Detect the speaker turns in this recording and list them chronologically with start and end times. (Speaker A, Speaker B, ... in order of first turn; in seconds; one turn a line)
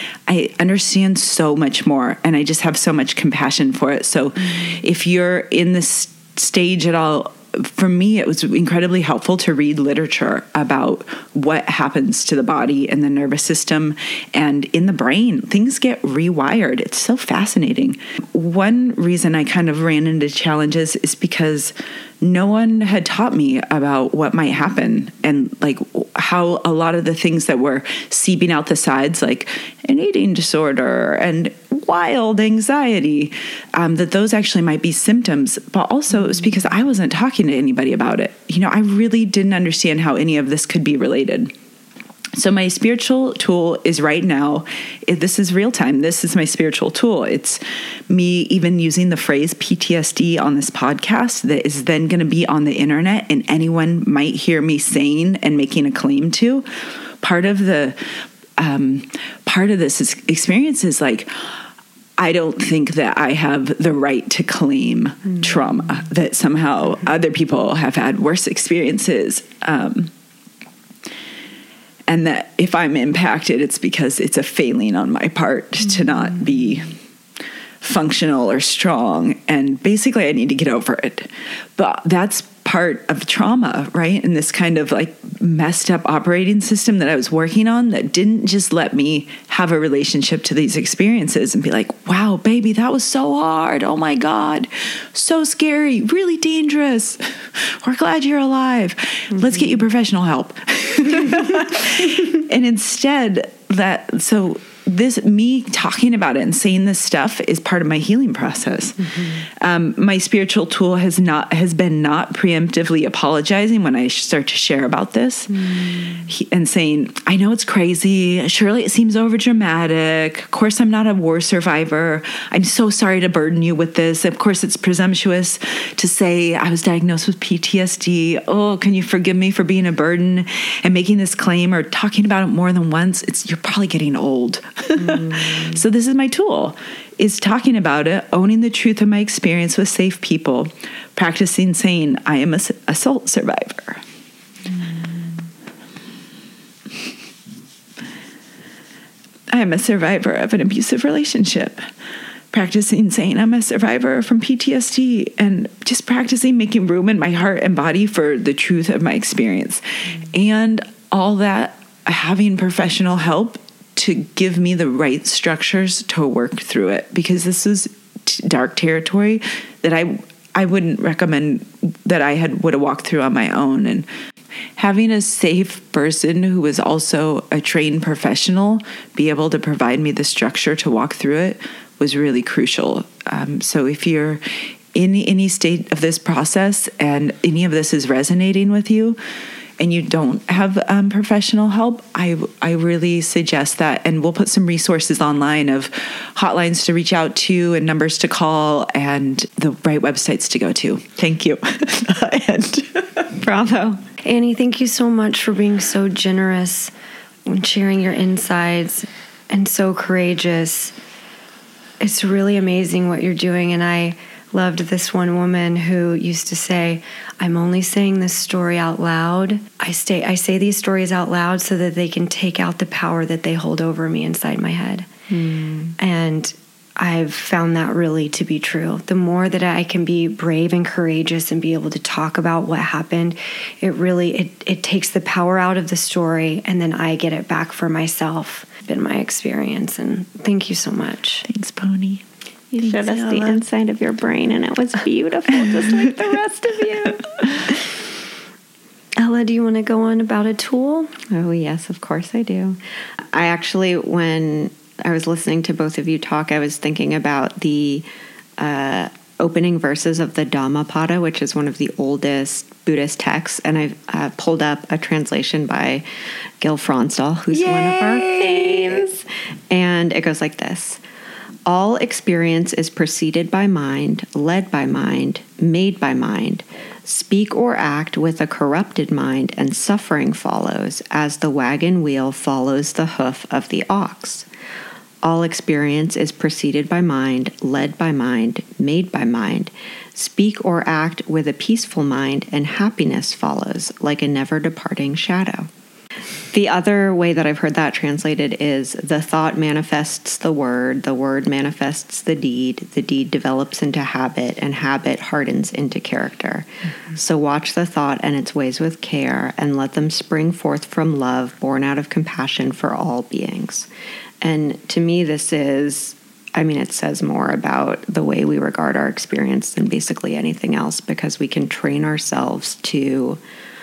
Speaker A: 0.3-41.5
Speaker A: 42.4-56.7
Speaker A: 57.2-58.0
Speaker A: 58.6-61.3
Speaker A: 62.2-70.1
Speaker A: 72.1-77.0
Speaker A: 77.8-144.0
Speaker A: 149.5-151.9
Speaker A: 152.5-174.1
Speaker A: 174.8-184.4
Speaker A: 184.9-189.2
Speaker A: 189.8-203.3
Speaker B: 203.4-204.0
Speaker C: 204.2-206.9
Speaker C: 207.5-210.9
Speaker C: 212.0-225.1
Speaker B: 225.3-226.0
Speaker C: 226.0-241.5
Speaker A: 241.5-242.2
Speaker B: 242.7-247.7
Speaker A: 242.8-243.6
Speaker C: 249.2-251.1
Speaker B: 251.3-252.8
Speaker B: 253.3-258.1
Speaker B: 258.6-266.0
Speaker B: 266.6-271.0
Speaker C: 267.8-268.9
Speaker B: 271.7-284.5
Speaker B: 285.2-295.7
Speaker B: 296.5-313.9
Speaker B: 314.4-323.4